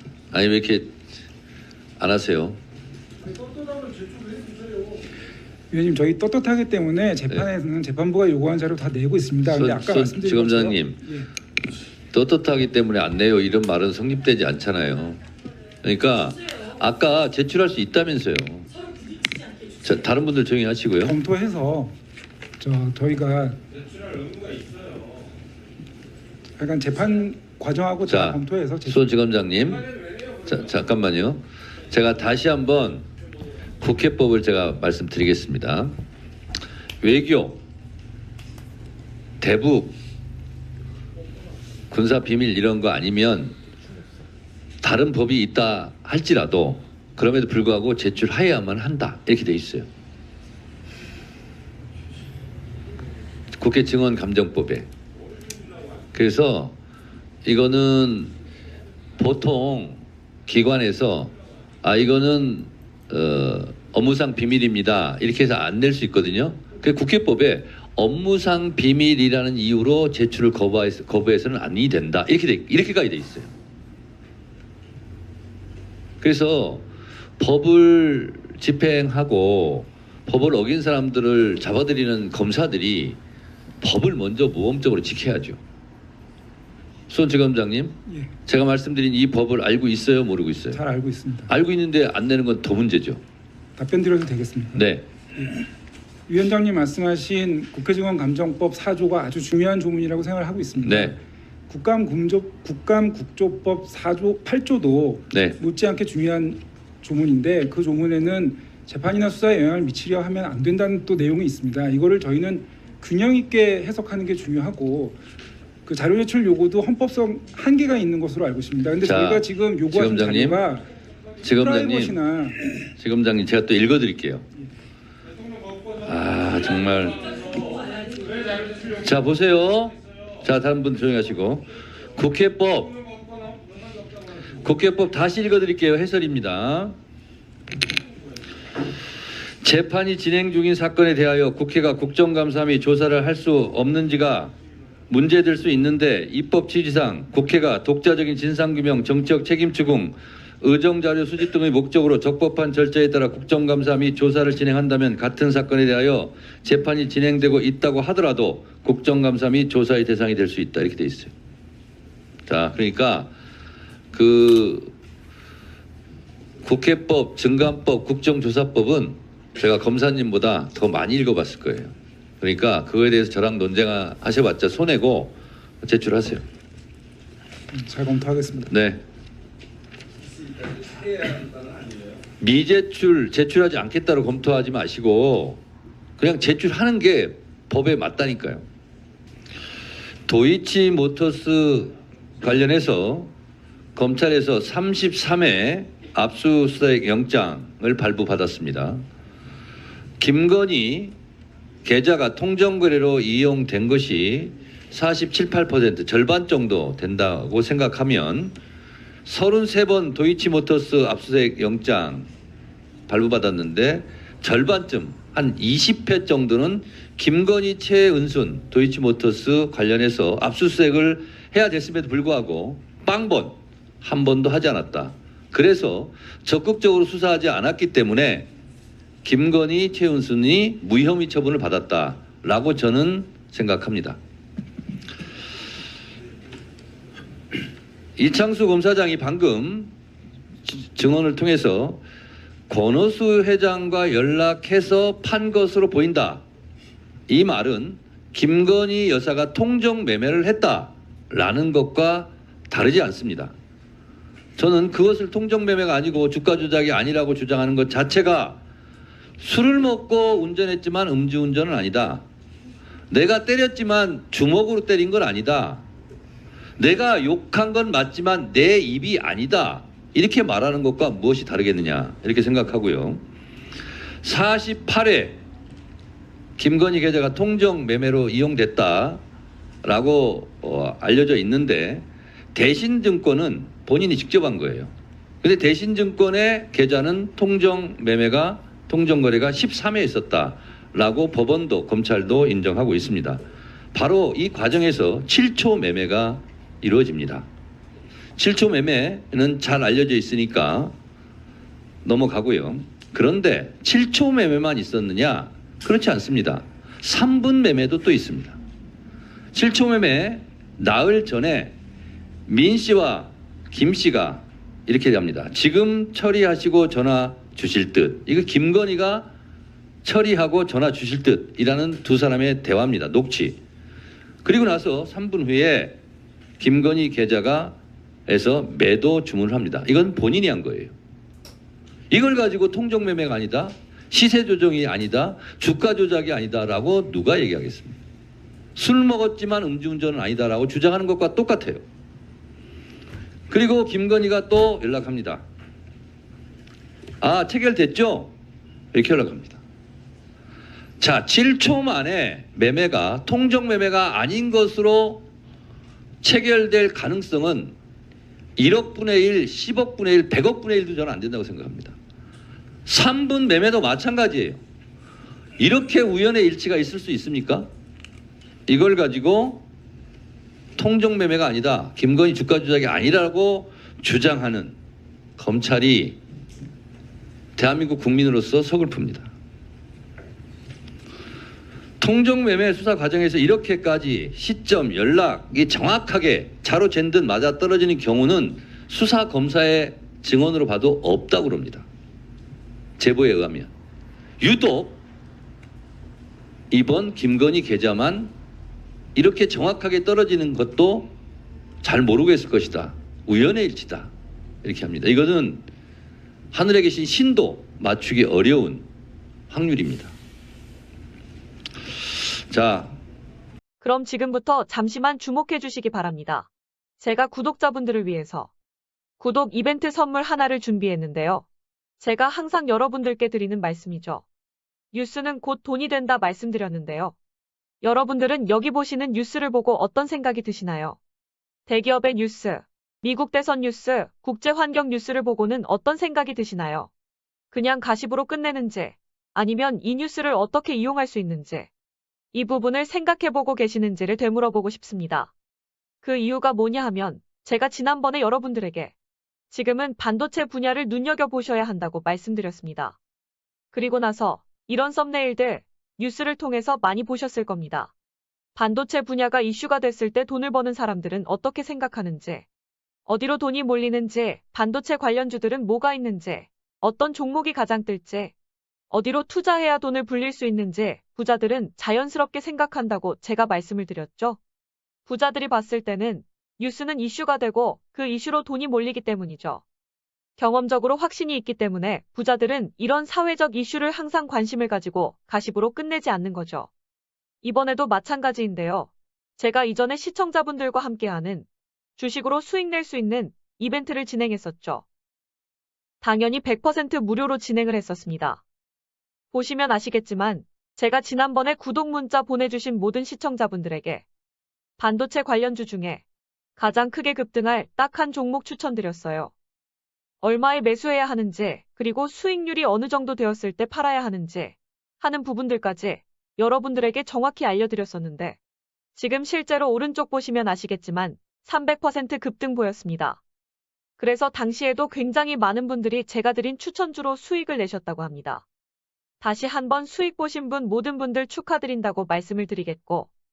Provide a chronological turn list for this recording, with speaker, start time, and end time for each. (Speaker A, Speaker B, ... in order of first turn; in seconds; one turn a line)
Speaker A: 0.3-0.9
Speaker A: 2.0-2.6
Speaker B: 5.7-11.3
Speaker A: 9.4-11.0
Speaker A: 12.1-15.2
Speaker A: 15.8-18.7
Speaker A: 19.8-21.2
Speaker B: 21.0-21.9
Speaker B: 22.6-23.6
Speaker B: 26.6-29.0
Speaker A: 28.1-29.9
Speaker A: 30.4-33.1
Speaker A: 33.8-36.0
Speaker A: 37.0-37.6
Speaker A: 39.4-40.0
Speaker A: 41.9-43.5
Speaker A: 44.8-49.9
Speaker A: 53.6-54.9
Speaker A: 56.1-56.8
Speaker A: 57.5-58.3
Speaker A: 59.2-61.3
Speaker A: 61.8-73.5
Speaker A: 76.2-76.9
Speaker A: 77.4-83.2
Speaker A: 83.8-85.6
Speaker A: 87.1-90.8
Speaker B: 90.7-91.5
Speaker A: 91.5-93.2
Speaker B: 93.8-94.8
Speaker A: 94.7-95.1
Speaker B: 96.3-101.2
Speaker A: 100.8-101.2
Speaker B: 101.7-115.2
Speaker A: 105.3-105.6
Speaker B: 115.8-120.8
Speaker A: 119.0-120.6
Speaker A: 121.4-122.2
Speaker B: 121.5-122.6
Speaker A: 123.0-124.5
Speaker A: 126.0-127.4
Speaker A: 128.9-133.0
Speaker A: 134.5-137.0
Speaker A: 139.6-144.5
Speaker A: 145.1-161.3
Speaker A: 162.5-163.3
Speaker A: 164.1-164.9
Speaker A: 166.6-176.4
Speaker B: 177.7-178.7
Speaker A: 178.7-179.0
Speaker A: 182.4-185.6
Speaker A: 186.2-188.7
Speaker A: 190.3-193.3
Speaker A: 194.0-199.0
Speaker A: 200.2-201.2
Speaker A: 201.8-208.6
Speaker A: 209.2-212.3
Speaker A: 213.1-228.5
Speaker A: 229.2-234.2
Speaker A: 238.2-239.9
Speaker A: 240.7-242.0
Speaker A: 242.7-246.4
Speaker A: 247.3-253.5
Speaker A: 254.6-258.6
Speaker A: 259.4-262.2
Speaker A: 263.1-265.8
Speaker A: 266.8-273.2
Speaker A: 274.2-275.4
Speaker A: 276.6-279.2
Speaker A: 279.8-284.9
Speaker A: 285.4-293.4
Speaker A: 293.9-297.5
Speaker A: 298.4-300.9
Speaker A: 302.0-308.6
Speaker A: 309.5-311.8
Speaker A: 312.5-319.3
Speaker A: 320.0-323.6
Speaker A: 324.4-326.0
Speaker A: 326.6-330.9
Speaker A: 332.1-338.0
Speaker A: 338.8-341.8
Speaker A: 343.5-345.4
Speaker A: 347.2-348.3
Speaker A: 348.9-349.6
Speaker A: 351.0-355.2
Speaker A: 356.2-357.8
Speaker A: 358.6-361.9
Speaker A: 362.9-364.6
Speaker A: 365.6-367.7
Speaker A: 368.7-369.6
Speaker A: 370.8-374.8
Speaker A: 375.4-376.2
Speaker A: 377.6-379.3
Speaker A: 382.0-391.9
Speaker A: 393.0-393.7
Speaker A: 394.4-395.0
Speaker A: 396.7-398.3
Speaker A: 399.2-401.1
Speaker A: 401.8-404.1
Speaker A: 404.6-405.7
Speaker A: 406.5-408.9
Speaker A: 409.5-410.1
Speaker A: 412.5-412.9
Speaker C: 413.8-416.5
Speaker C: 417.0-418.5
Speaker C: 419.2-421.5
Speaker C: 422.0-424.2
Speaker C: 424.9-427.1
Speaker C: 427.8-431.0
Speaker C: 431.7-436.9
Speaker C: 437.5-441.7
Speaker C: 442.3-445.3
Speaker C: 446.0-448.9
Speaker C: 449.5-453.0
Speaker C: 453.7-457.9
Speaker C: 458.6-462.4
Speaker C: 463.1-468.3
Speaker C: 468.9-474.4
Speaker C: 475.1-479.6
Speaker C: 480.4-486.7
Speaker C: 487.4-494.8
Speaker C: 496.0-498.4
Speaker C: 499.3-504.1
Speaker C: 504.8-506.0
Speaker C: 506.6-509.3
Speaker C: 510.2-518.4
Speaker C: 519.0-523.2
Speaker C: 524.0-528.5
Speaker C: 529.2-533.1